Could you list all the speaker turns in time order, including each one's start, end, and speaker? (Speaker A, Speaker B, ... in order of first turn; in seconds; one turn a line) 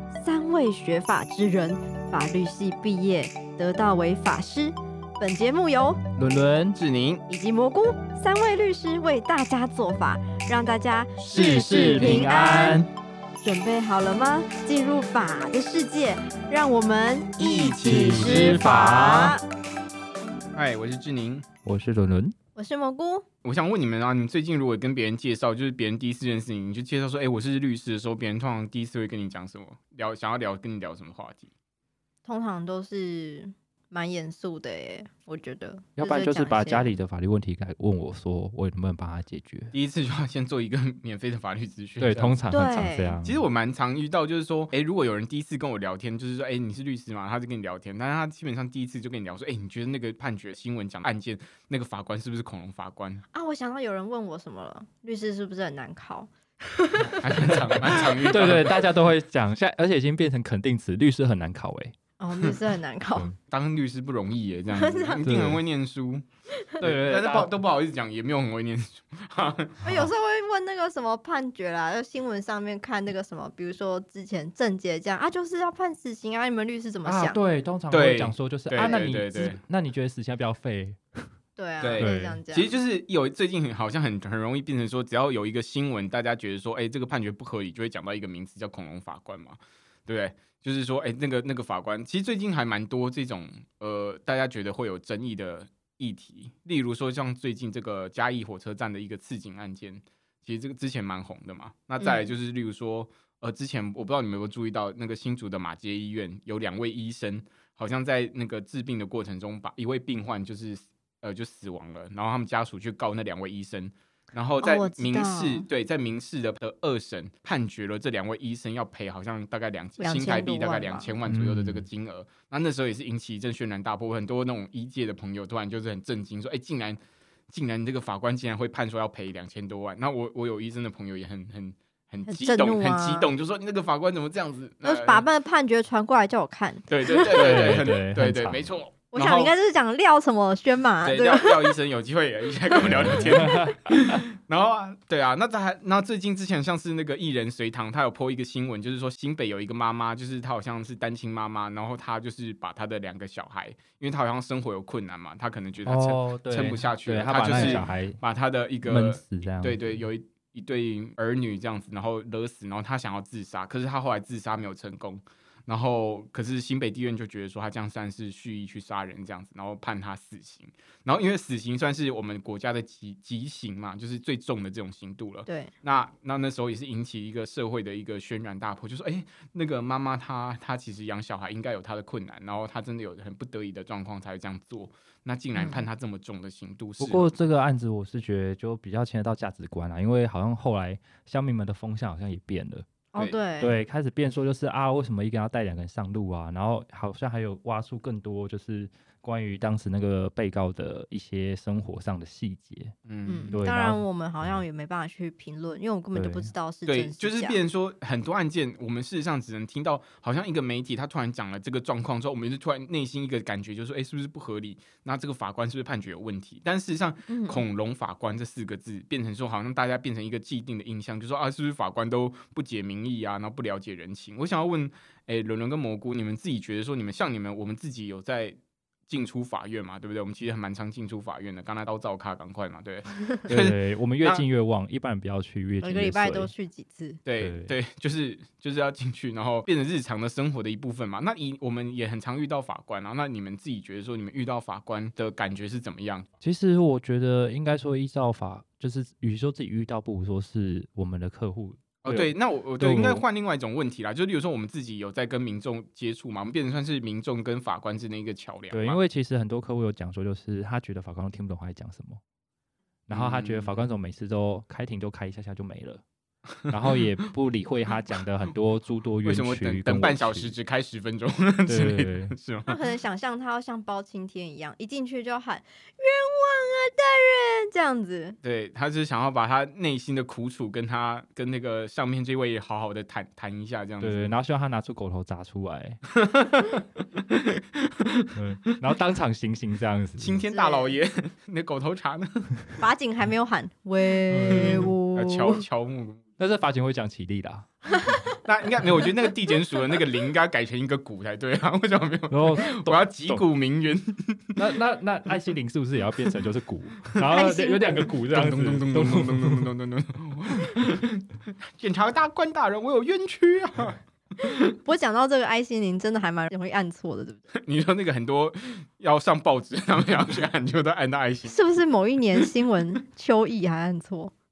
Speaker A: 0.1-6.0
Speaker B: 6.2-6.8
Speaker C: 6.7-7.2
Speaker A: 7.3-12.8
Speaker B: 11.2-12.9
Speaker A: 13.4-19.4
Speaker C: 17.4-18.7
Speaker B: 17.8-19.3
Speaker C: 20.5-21.4
Speaker B: 21.6-22.3
Speaker A: 22.6-23.2
Speaker C: 23.4-31.5
Speaker A: 32.2-36.9
Speaker B: 36.0-39.7
Speaker C: 39.7-42.4
Speaker B: 42.0-43.4
Speaker A: 42.5-43.2
Speaker C: 43.2-53.2
Speaker A: 53.3-58.0
Speaker C: 57.2-58.9
Speaker B: 57.4-61.9
Speaker A: 62.2-63.3
Speaker C: 63.5-66.2
Speaker A: 64.7-65.2
Speaker B: 65.2-65.6
Speaker C: 66.8-69.8
Speaker B: 66.8-67.5
Speaker A: 69.8-77.4
Speaker B: 77.0-81.2
Speaker C: 77.9-79.6
Speaker A: 81.6-82.7
Speaker C: 81.8-127.0
Speaker B: 82.0-82.4
Speaker A: 102.0-102.3
Speaker A: 114.6-115.7
Speaker A: 120.0-121.1
Speaker B: 121.3-121.8
Speaker C: 127.5-135.2
Speaker A: 132.3-133.3
Speaker A: 134.8-137.8
Speaker C: 136.9-139.5
Speaker B: 137.3-138.7
Speaker A: 139.1-141.7
Speaker C: 141.0-187.3
Speaker B: 142.8-143.9
Speaker B: 155.8-158.2
Speaker A: 157.6-157.8
Speaker B: 158.8-160.0
Speaker A: 175.5-175.7
Speaker A: 185.6-185.8
Speaker B: 187.0-192.8
Speaker A: 193.1-193.7
Speaker B: 193.6-202.9
Speaker C: 203.1-203.6
Speaker A: 203.2-207.6
Speaker B: 203.5-204.6
Speaker B: 206.1-206.5
Speaker C: 206.9-228.6
Speaker A: 217.3-217.6
Speaker C: 229.1-234.4
Speaker B: 233.5-236.5
Speaker A: 235.8-237.2
Speaker C: 237.2-246.3
Speaker B: 237.4-237.7
Speaker B: 246.4-253.2
Speaker C: 252.0-259.0
Speaker B: 258.7-262.2
Speaker B: 263.1-266.0
Speaker C: 263.1-263.7
Speaker B: 266.7-270.5
Speaker C: 269.2-272.8
Speaker B: 271.7-272.3
Speaker A: 272.7-278.4
Speaker C: 278.4-284.3
Speaker B: 284.0-286.0
Speaker C: 286.1-288.7
Speaker B: 288.3-290.4
Speaker C: 290.2-292.5
Speaker A: 290.5-290.9
Speaker A: 292.8-295.6
Speaker B: 294.3-294.9
Speaker C: 294.5-296.2
Speaker B: 296.4-297.7
Speaker A: 297.9-298.4
Speaker C: 298.4-304.7
Speaker B: 302.3-303.4
Speaker B: 304.6-309.7
Speaker A: 307.3-308.1
Speaker C: 308.2-314.6
Speaker A: 314.4-317.5
Speaker C: 317.5-321.6
Speaker A: 321.5-324.3